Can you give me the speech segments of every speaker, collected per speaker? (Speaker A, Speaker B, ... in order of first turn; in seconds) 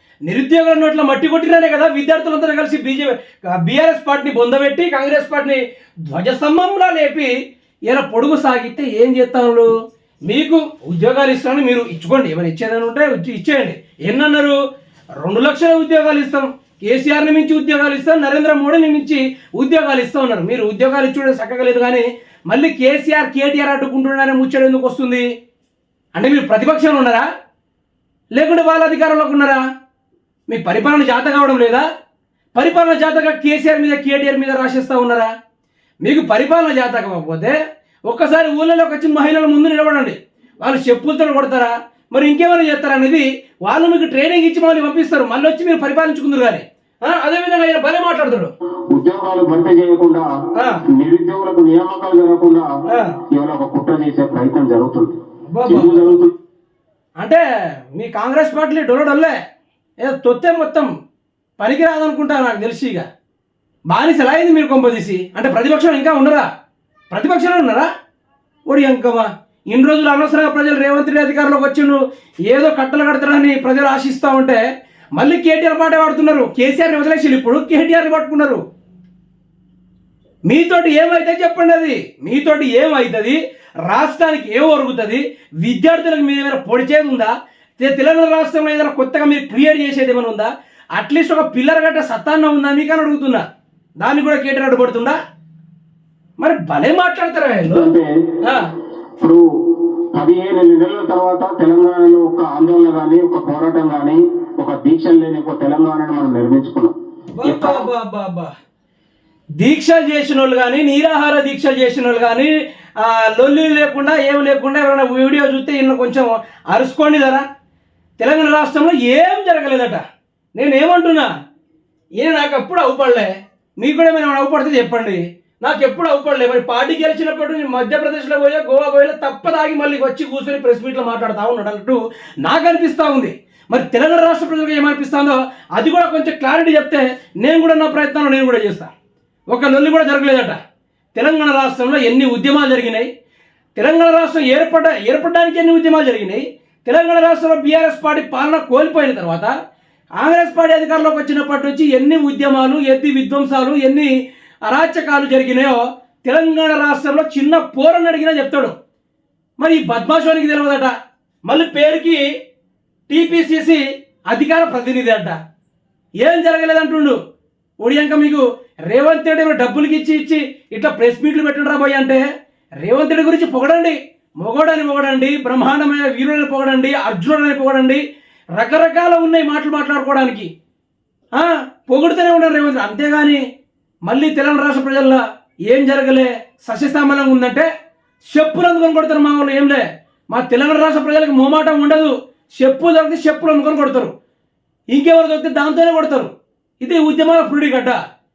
Speaker A: 0.3-7.3, 7.9-9.7, 10.3-14.6, 15.2-25.3, 26.2-27.3, 28.4-29.6, 30.5-31.9, 32.6-35.3, 36.0-48.5, 50.6-50.8, 52.9-53.1, 55.5-56.2, 58.0-59.4, 60.0-60.9, 61.6-63.1, 63.9-66.5, 67.1-67.9, 68.7-74.6, 75.2-78.6, 80.5-93.4, 94.0-95.2, 96.4-98.7, 107.4-108.5, 109.6-117.4, 118.2-120.0, 120.6-121.3, 122.2-138.9, 139.5-140.6, 141.2-143.1, 143.8-149.5, 150.2-154.1, 154.7-158.8, 159.6-160.9, 161.5-162.3, 163.1-165.4, 166.2-167.2, 167.8-172.2, 172.8-178.0, 178.6-180.5, 181.3-183.4, 184.1-187.7, 188.3-194.1, 194.9-196.3, 196.8-198.0
Speaker B: 48.9-50.3, 50.9-52.7, 53.3-56.3, 97.7-98.1, 100.1-107.9